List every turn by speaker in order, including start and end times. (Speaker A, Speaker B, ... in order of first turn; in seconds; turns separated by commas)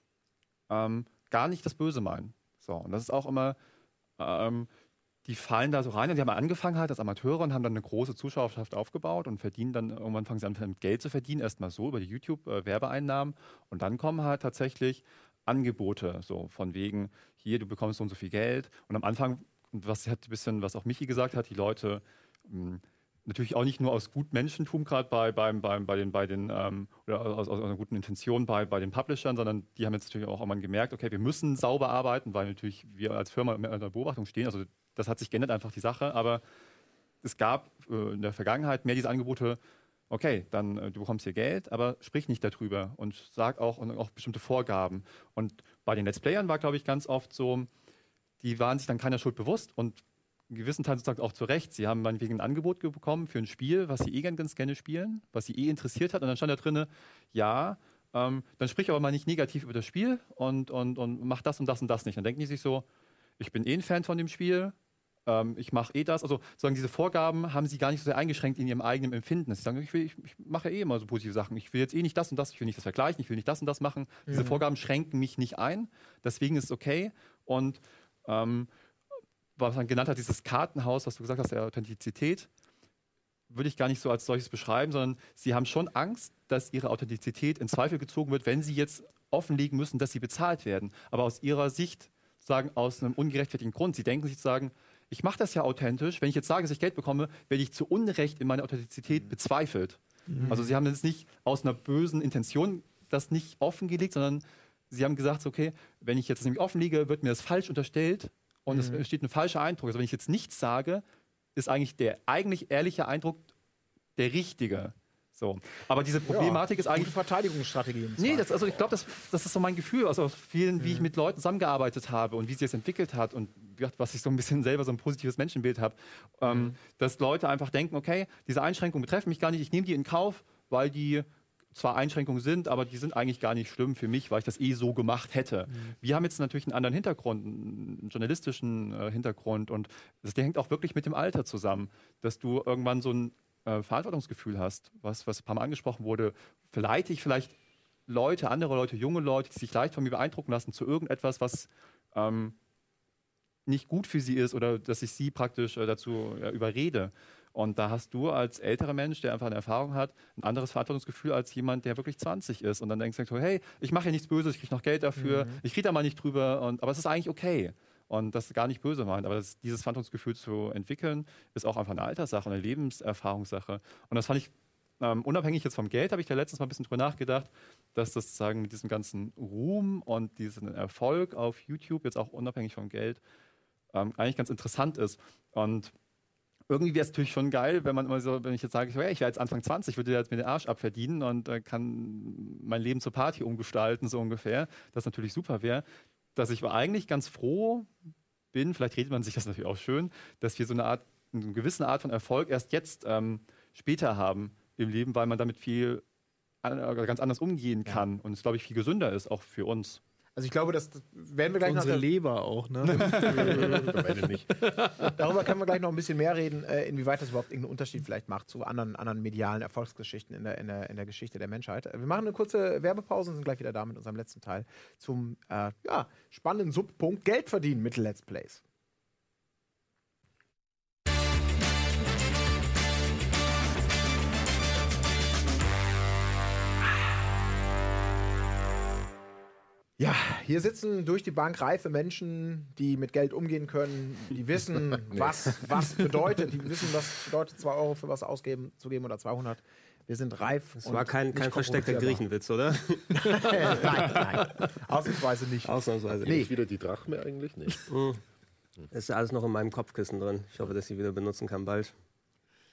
Speaker A: 0.7-3.6, Speaker A: 4.2-4.7, Speaker A: 5.2-36.4, Speaker A: 37.2-39.6, Speaker A: 40.1-47.7, Speaker A: 48.4-62.9, Speaker A: 63.4-64.7, Speaker A: 65.3-78.7, Speaker B: 74.3-74.6, Speaker A: 79.6-82.5, Speaker A: 83.5-111.0, Speaker C: 100.3-100.6, Speaker B: 100.4-100.8, Speaker B: 108.7-109.0, Speaker A: 111.6-113.5, Speaker A: 114.2-117.1, Speaker B: 116.2-118.8, Speaker A: 118.2-147.5, Speaker B: 120.8-121.1, Speaker B: 126.5-126.8, Speaker A: 148.1-152.6, Speaker A: 153.7-183.2, Speaker B: 165.2-165.6, Speaker A: 183.9-185.9, Speaker A: 186.7-195.8, Speaker A: 196.3-197.9, Speaker A: 198.5-206.0, Speaker A: 206.6-210.0, Speaker B: 210.4-212.1, Speaker C: 211.6-213.8, Speaker A: 212.9-213.8, Speaker B: 212.9-213.9, Speaker D: 213.2-214.6, Speaker B: 215.1-228.6, Speaker B: 240.0-252.2, Speaker D: 245.1-245.5, Speaker E: 250.8-254.1, Speaker B: 253.1-255.7, Speaker E: 255.6-256.4, Speaker B: 256.2-256.5, Speaker D: 256.2-257.9, Speaker E: 257.9-258.2, Speaker E: 258.9-261.9